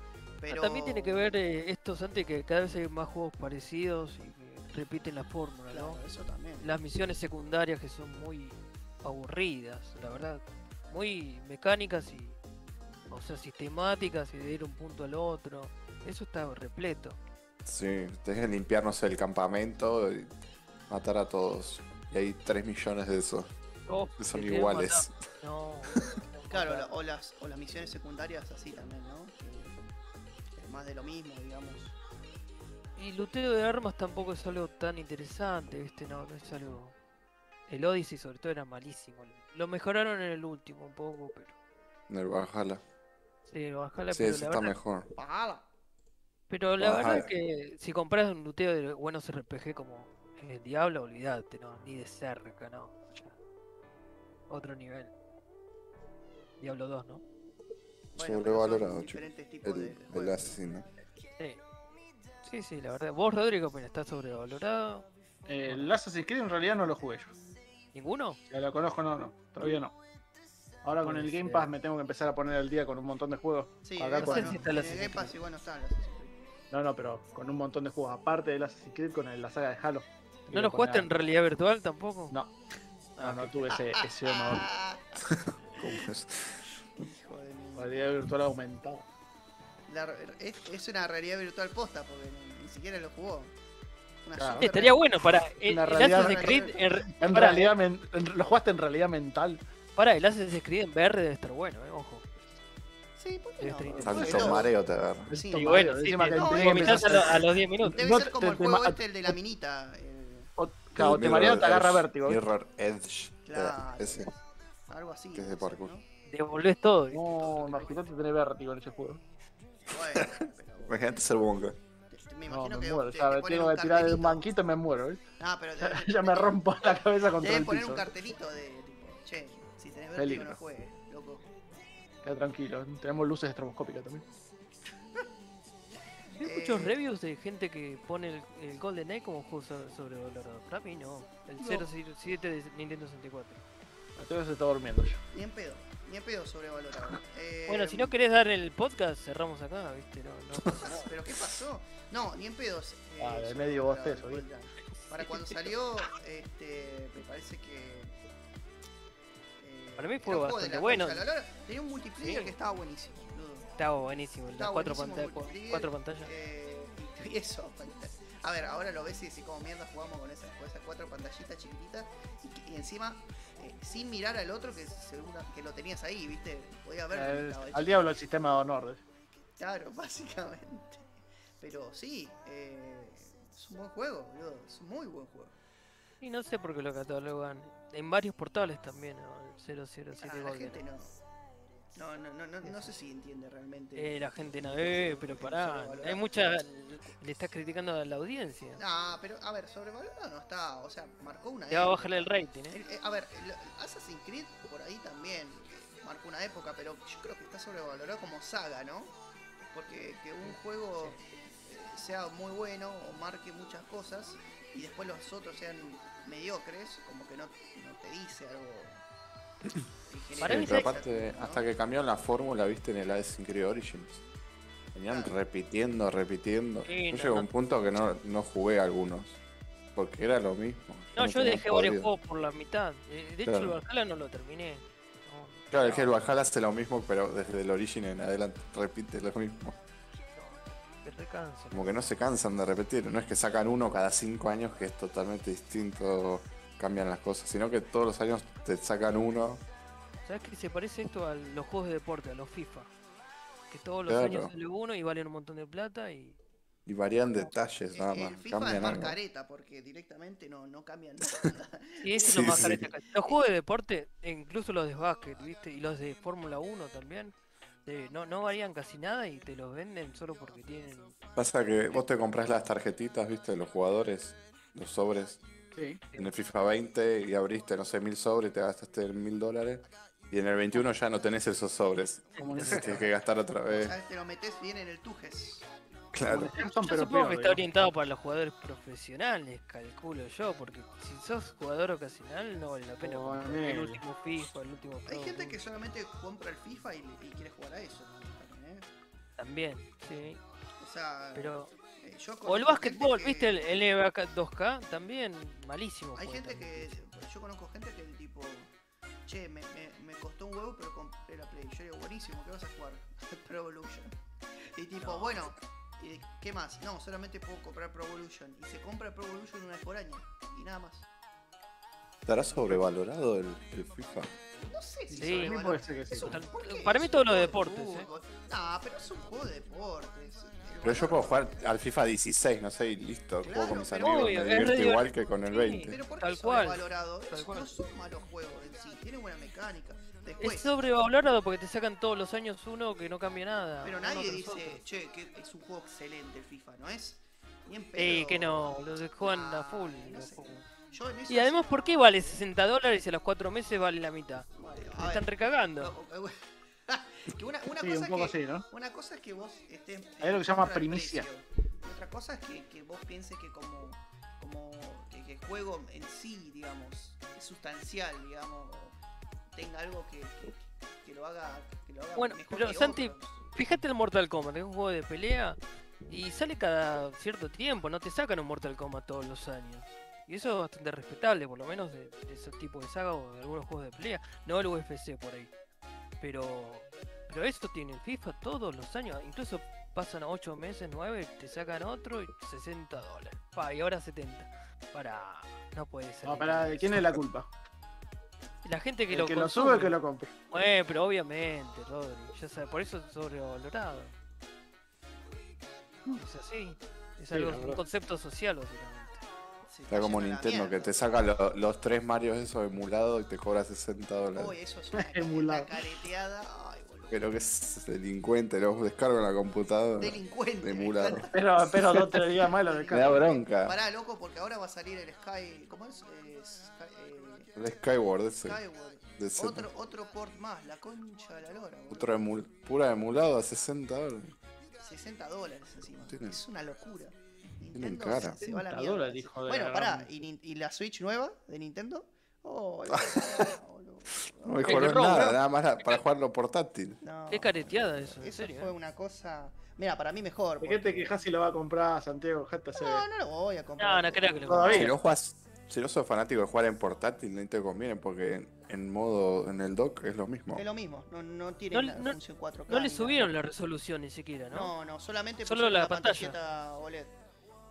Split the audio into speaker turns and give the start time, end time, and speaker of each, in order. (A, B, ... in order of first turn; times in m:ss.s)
0:00.4-0:01.3 A
0:00.5-0:06.0 B
0:05.7-0:06.7 A
0:06.6-0:12.4 B
0:13.1-0:17.2 B
0:17.6-0:20.3 C
0:20.9-0:23.5 C
0:23.9-0:26.9 B
0:24.2-0:25.1 C
0:26.5-0:29.8 A
0:30.6-0:32.0 A
0:33.0-0:36.9 B
0:37.7-0:41.5 B
0:42.1-0:42.8 C
0:43.4-0:44.8 B
0:44.1-0:45.1 C
0:45.2-0:45.6 A
0:46.5-0:53.3 B
0:46.8-0:47.3 C
0:54.5-0:55.1 B
0:56.6-0:57.2 B
0:58.1-1:00.6 A
0:58.2-1:00.8 C
1:02.4-1:05.1 B
1:05.4-1:07.3 D
1:05.6-1:05.9 B
1:07.9-1:08.4 B
1:08.5-1:09.9 D
1:10.8-1:14.6 D
1:11.0-1:11.7 B
1:13.8-1:16.5 A
1:14.2-1:15.3 B
1:16.7-1:21.1 D
1:20.5-1:22.3 B
1:23.2-1:25.2 A
1:23.2-1:23.7 B
1:23.2-1:24.7 D
1:25.3-1:26.6 C
1:25.8-1:26.0 A
1:27.0-1:28.0 A
1:27.8-1:29.0 D
1:29.9-1:33.5 A
1:34.2-1:35.0 A
1:34.4-1:34.6 D
1:34.6-1:37.7 B
1:35.6-1:39.6 D
1:35.9-1:37.5 A
1:40.0-1:42.2 B
1:43.2-1:44.7 A
1:43.6-1:44.4 B
1:43.9-1:44.6 D
1:44.0-1:45.3 C
1:45.3-1:49.3 D
1:45.3-1:50.5 A
1:45.6-1:48.0 B
1:50.6-1:52.4 D
1:51.0-1:54.3 C
1:53.4-1:54.4 A
1:54.9-1:56.0 A
1:55.3-1:55.9 C
1:56.3-1:58.0 B
1:57.1-1:59.2 D
1:59.9-2:01.0 A
2:00.9-2:01.8 C
2:02.1-2:04.5 A
2:02.5-2:05.2 D
2:05.4-2:06.6 A
2:05.8-2:08.1 D
2:07.4-2:11.4 A
2:10.2-2:10.6 D
2:12.2-2:14.2 D
2:16.4-2:16.9 A
2:16.4-2:23.6 B
2:21.6-2:21.9 A
2:24.2-2:25.2 D
2:25.3-2:28.1 A
2:27.7-2:31.1 B
2:30.8-2:38.1 A
2:33.2-2:34.4 D
2:39.6-2:43.7 A
2:40.0-2:41.2 B
2:42.2-2:42.5 B
2:43.8-2:46.3 B
2:44.5-2:58.0 A
2:57.1-2:59.0 D
2:59.6-3:01.0 A
3:01.6-3:05.5 A
3:06.2-3:10.8 B
3:10.2-3:11.2 A
3:11.9-3:16.7 A
3:12.6-3:12.9 B
3:14.0-3:18.8 B
3:18.8-3:39.0 A
3:21.7-3:22.8 B
3:30.4-3:31.2 B
3:40.1-3:41.6 A
3:40.4-3:44.2 C
3:40.4-3:40.9 B
3:44.9-3:49.4 C
3:45.1-3:45.3 A
3:46.8-3:47.5 B
3:49.9-3:52.1 C
3:51.1-3:56.1 B
3:53.4-3:53.8 C
3:55.7-3:59.8 C
4:00.3-4:02.0 B
4:01.7-4:09.6 C
4:10.2-4:12.9 B
4:13.7-4:16.4 B
4:14.1-4:14.5 C
4:16.8-4:19.2 C
4:17.9-4:23.4 A
4:22.0-4:27.3 B
4:22.2-4:22.9 C
4:27.8-4:31.1 B
4:31.4-4:35.4 C
4:35.7-4:36.0 D
4:36.2-4:43.9 C
4:42.4-4:43.1 D
4:42.4-4:42.9 B
4:43.7-4:45.6 A
4:46.1-4:46.5 C
4:46.2-4:47.9 D
4:46.8-4:55.6 B
4:53.0-4:54.0 D
4:55.1-4:58.9 A
4:59.4-5:00.4 B
5:00.8-5:03.7 A
5:01.3-5:01.7 B
5:02.4-5:07.0 B
5:06.2-5:08.7 A
5:09.2-5:21.1 A
5:15.0-5:15.3 B
5:22.2-5:24.3 C
5:24.6-5:31.6 A
5:25.1-5:26.3 D
5:25.2-5:25.6 B
5:26.1-5:28.1 B
5:30.8-5:36.0 C
5:33.4-5:34.6 A
5:34.0-5:37.7 B
5:35.9-5:40.7 A
5:40.4-5:44.8 B
5:43.8-5:52.4 A
5:48.0-5:50.6 B
5:51.3-5:55.9 B
5:54.5-6:08.9 A
5:57.8-5:58.6 D
6:00.2-6:01.2 D
6:09.5-6:13.5 A
6:12.2-6:15.6 B
6:16.1-6:25.5 B
6:26.2-6:37.1 B
6:36.2-6:37.5 D
6:38.6-6:44.1 B
6:39.1-6:40.3 D
6:46.1-6:49.2 B
6:47.3-6:47.8 D
6:49.7-6:51.0 A
6:49.9-6:54.6 C
6:54.3-6:57.2 A
6:54.9-6:55.8 D
6:57.1-7:01.3 C
7:00.0-7:01.4 A
7:01.3-7:03.3 D
7:02.5-7:07.5 A
7:02.9-7:03.8 C
7:07.6-7:08.6 C
7:08.4-7:12.2 A
7:09.2-7:09.7 C
7:11.9-7:14.3 C
7:14.8-7:25.3 A
7:16.1-7:16.4 C
7:17.7-7:18.4 C
7:18.4-7:20.1 D
7:22.9-7:23.5 C
7:24.4-7:27.0 C
7:24.6-7:25.4 B
7:27.0-7:31.1 A
7:27.3-7:28.7 B
7:30.6-7:33.0 D
7:32.8-7:34.8 A
7:33.8-7:34.9 B
7:34.4-7:34.9 D
7:34.7-7:40.6 C
7:40.5-7:43.2 A
7:41.7-7:42.2 B
7:42.7-7:44.7 B
7:44.5-7:47.1 A
7:45.4-7:46.4 B